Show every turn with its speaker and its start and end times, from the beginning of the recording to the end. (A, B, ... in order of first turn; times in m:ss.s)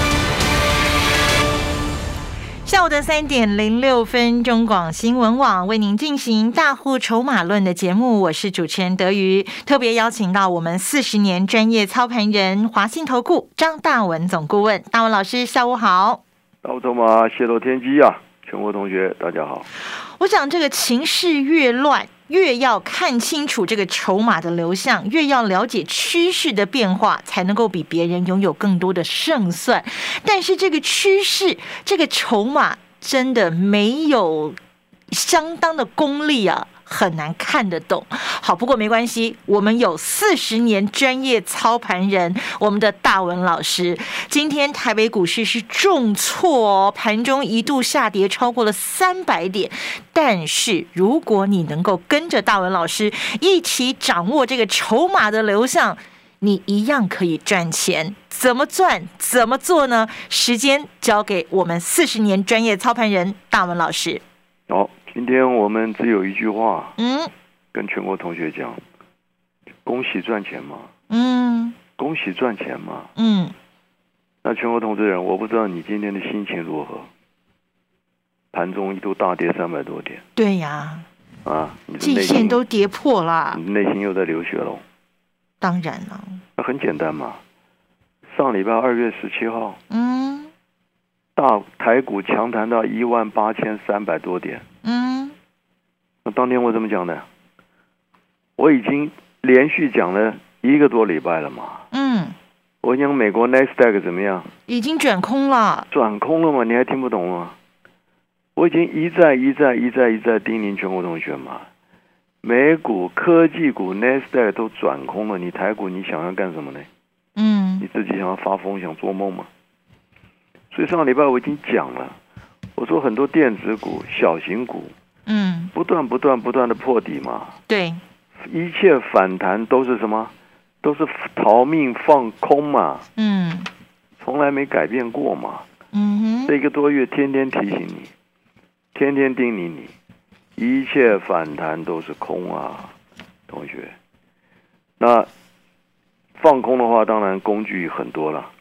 0:02.6-0:16.2 A
0:16.6-0:19.7 B
0:20.2-0:34.6 A
0:35.1-1:04.2 A
1:04.7-1:07.0 B
1:07.0-1:07.3 A
1:07.7-1:08.8 B
1:09.8-1:10.9 B
1:11.1-1:11.8 A
1:12.0-1:13.1 B
1:13.2-1:13.5 A
1:14.4-1:17.1 B
1:18.5-1:20.2 B
1:20.4-1:21.1 A
1:21.4-1:22.6 B
1:22.0-1:23.6 A
1:23.5-1:24.8 B
1:25.6-1:26.4 A
1:26.6-1:27.4 B
1:28.3-1:29.8 B
1:29.9-1:30.5 A
1:31.4-1:34.6 B
1:34.8-1:35.3 A
1:36.2-1:37.2 B
1:38.6-1:41.9 B
1:41.9-1:42.4 A
1:42.8-1:44.5 B
1:44.7-1:45.9 A
1:45.9-1:47.6 B
1:48.5-1:51.7 B
1:52.4-1:56.9 B
1:57.4-1:57.8 A
1:57.8-1:59.5 B
2:00.7-2:02.2 B
2:02.8-2:04.9 B
2:05.3-2:05.7 A
2:05.7-2:07.6 B
2:07.7-2:08.0 A
2:08.4-2:13.1 B
2:13.2-2:13.7 A
2:14.2-2:15.6 B
2:15.9-2:16.5 A
2:16.5-2:18.1 B
2:18.9-2:19.9 B
2:20.6-2:22.9 B
2:23.5-2:23.9 B
2:25.0-2:25.3 B
2:26.4-2:28.5 B